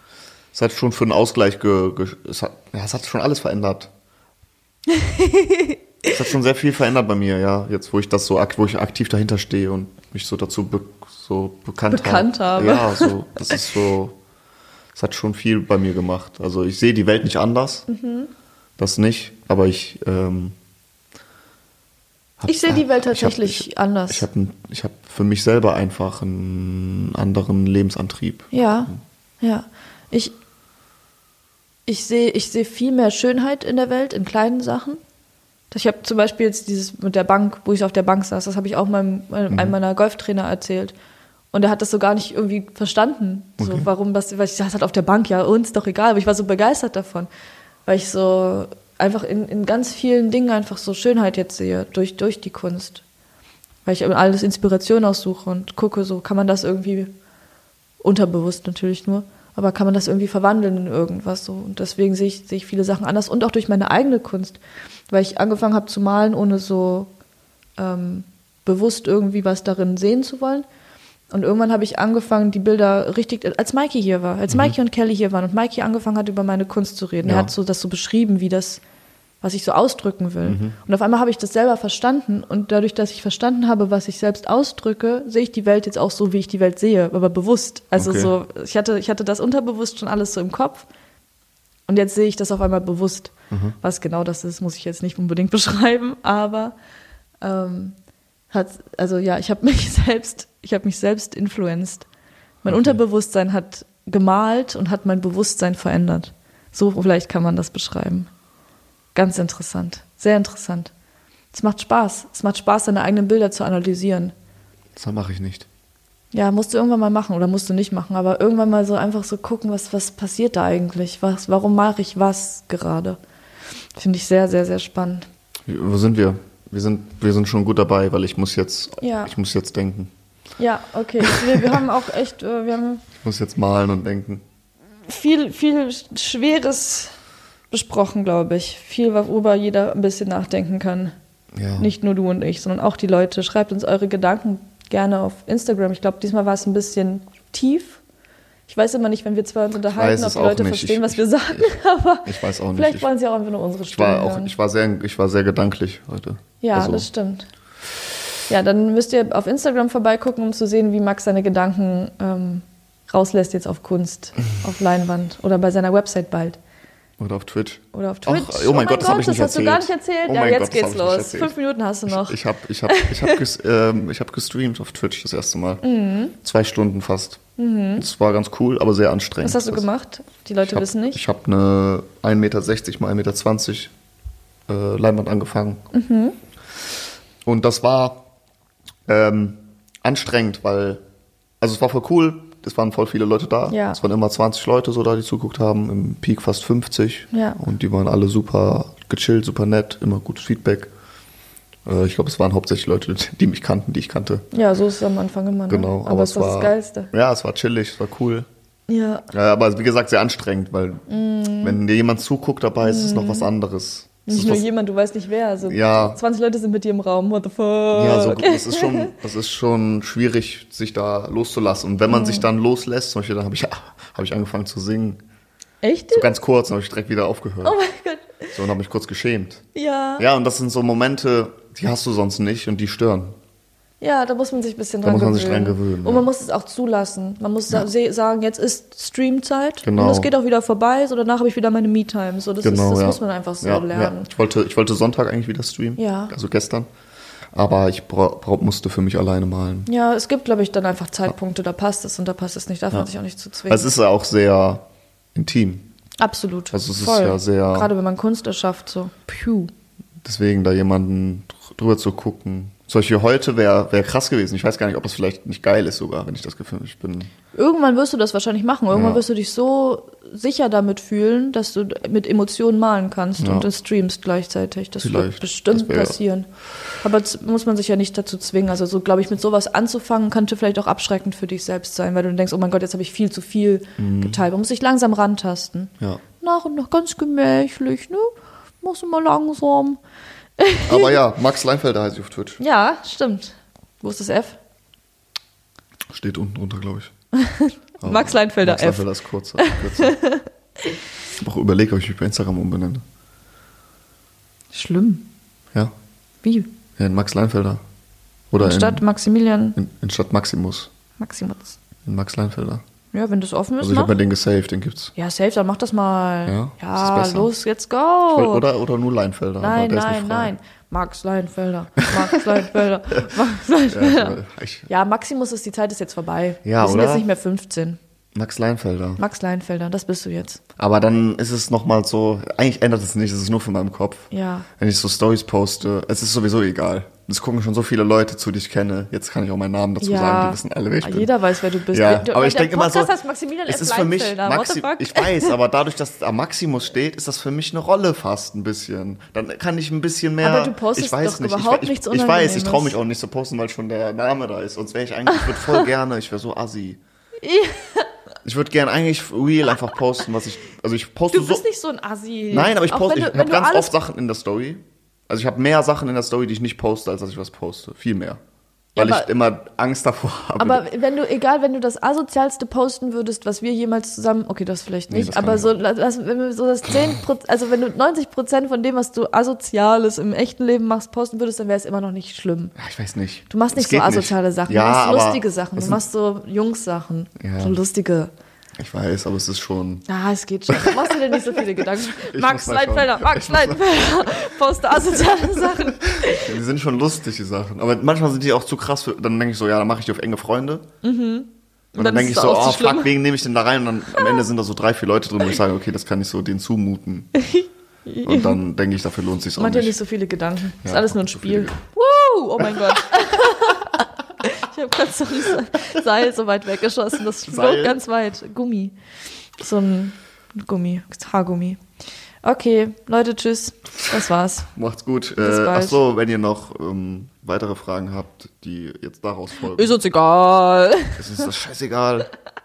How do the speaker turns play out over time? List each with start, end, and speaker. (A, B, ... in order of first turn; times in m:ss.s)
0:00.5-0:03.9 A
0:04.9-0:05.8 B
0:06.0-0:14.2 A
0:11.9-0:13.5 B
0:14.9-0:17.9 A
0:17.9-0:18.3 B
0:18.8-0:20.5 A
0:22.4-0:29.0 A
0:22.5-0:24.2 B
0:28.5-0:30.3 B
0:31.8-0:35.0 B
0:35.7-0:41.0 B
0:41.5-0:47.3 B
0:43.6-0:43.9 A
0:47.8-0:53.0 B
0:53.8-0:57.1 B
0:58.0-1:07.1 B
1:07.8-1:10.6 B
1:11.3-1:18.8 B
1:14.5-1:14.7 A
1:17.2-1:17.5 A
1:19.4-1:30.9 B
1:20.4-1:20.8 A
1:28.0-1:28.3 A
1:31.9-1:36.7 B
1:37.4-1:38.0 B
1:38.5-1:42.1 B
1:42.6-1:48.3 B
1:42.7-1:43.0 A
1:49.1-1:50.9 B
1:51.5-1:54.3 B
1:55.0-1:55.7 A
1:56.3-2:03.2 B
2:03.9-2:05.2 B
2:05.7-2:10.1 A
2:09.0-2:09.3 B
2:10.6-2:13.0 B
2:13.2-2:14.4 A
2:15.0-2:17.1 B
2:17.7-2:21.1 B
2:21.5-2:21.9 A
2:21.8-2:28.0 B
2:28.7-2:34.5 B
2:29.9-2:31.7 A
2:32.2-2:33.1 A
2:33.9-2:37.1 A
2:36.6-2:37.5 B
2:38.5-2:46.6 B
2:47.2-2:51.5 A
2:47.9-2:52.4 B
2:52.0-2:55.8 A
2:52.9-2:53.4 B
2:55.8-2:56.3 B
2:56.4-2:57.4 A
2:57.6-2:58.0 B
2:58.0-2:59.8 A
2:59.4-3:01.2 B
3:00.6-3:03.9 A
3:04.7-3:05.8 A
3:05.9-3:06.4 B
3:07.4-3:08.3 A
3:09.1-3:11.0 A
3:11.6-3:20.9 A
3:13.7-3:14.0 B
3:17.3-3:17.6 B
3:21.8-3:24.4 A
3:24.5-3:27.1 B
3:25.7-3:28.5 A
3:28.9-3:29.3 B
3:29.3-3:31.0 A
3:31.1-3:31.8 B
3:31.6-3:34.6 A
3:32.8-3:33.5 B
3:34.3-3:39.1 B
3:35.6-3:36.2 A
3:37.9-3:45.2 A
3:42.1-3:42.4 B
3:45.8-3:46.3 B
3:46.1-3:47.8 A
3:47.6-3:48.5 B
3:48.5-3:49.6 A
3:49.7-3:50.2 B
3:50.2-3:53.3 A
3:54.0-4:04.3 B
3:55.0-3:56.3 A
3:59.8-4:00.3 A
4:02.6-4:06.9 A
4:06.0-4:06.3 B
4:07.5-4:09.9 A
4:09.9-4:13.9 B
4:13.7-4:15.8 A
4:16.2-4:19.7 B
4:16.7-4:17.9 A
4:20.2-4:27.3 A
4:27.5-4:36.5 B
4:28.9-4:29.2 A
4:33.4-4:33.7 A
4:35.0-4:36.2 A
4:37.0-4:50.0 B
4:44.0-4:44.4 A
4:50.6-4:51.2 B
4:50.8-4:52.6 A
4:52.6-4:54.6 B
4:56.1-4:57.1 A
4:57.3-4:59.0 B
4:58.0-5:00.2 A
4:59.6-5:00.9 B
5:01.4-5:03.0 A
5:04.7-5:05.2 B
5:06.4-5:06.7 B
5:07.0-5:07.8 A
5:08.5-5:09.0 A
5:08.6-5:09.8 B
5:09.7-5:10.9 A
5:11.2-5:11.8 B
5:12.0-5:12.8 A
5:13.1-5:14.2 B
5:13.8-5:15.1 A
5:15.2-5:18.6 B
5:16.4-5:17.5 A
5:18.3-5:20.5 A
5:19.6-5:24.4 B
5:22.0-5:22.4 A
5:23.9-5:24.9 A
5:24.9-5:28.0 B
5:26.6-5:27.2 A
5:28.3-5:29.2 A
5:29.2-5:30.6 B
5:30.8-5:41.3 A
5:34.3-5:34.7 B
5:40.0-5:45.5 B
5:41.9-5:43.1 A
5:43.6-5:57.0 A
5:50.4-5:53.0 B
5:55.4-5:55.6 B
5:57.4-5:58.1 B
5:58.4-6:01.6 A
6:01.3-6:03.9 B
6:02.5-6:08.4 A
6:08.9-6:09.3 B
6:09.0-6:10.8 A
6:10.6-6:22.7 B
6:15.1-6:15.7 A
6:22.8-6:26.0 A
6:23.5-6:28.3 B
6:27.4-6:27.8 A
6:28.8-6:30.1 A
6:30.1-6:36.6 B
6:30.7-6:34.5 A
6:35.2-6:40.9 A
6:41.0-6:43.1 B
6:42.0-6:47.3 A
6:44.2-6:44.4 B
6:47.4-6:48.6 B
6:48.2-6:50.0 A
6:49.6-7:01.8 B
6:50.8-6:51.8 A
6:57.4-6:58.0 A
7:02.4-7:04.7 B
7:04.7-7:10.0 A
7:05.4-7:06.0 B
7:09.7-7:11.5 B
7:11.2-7:12.3 A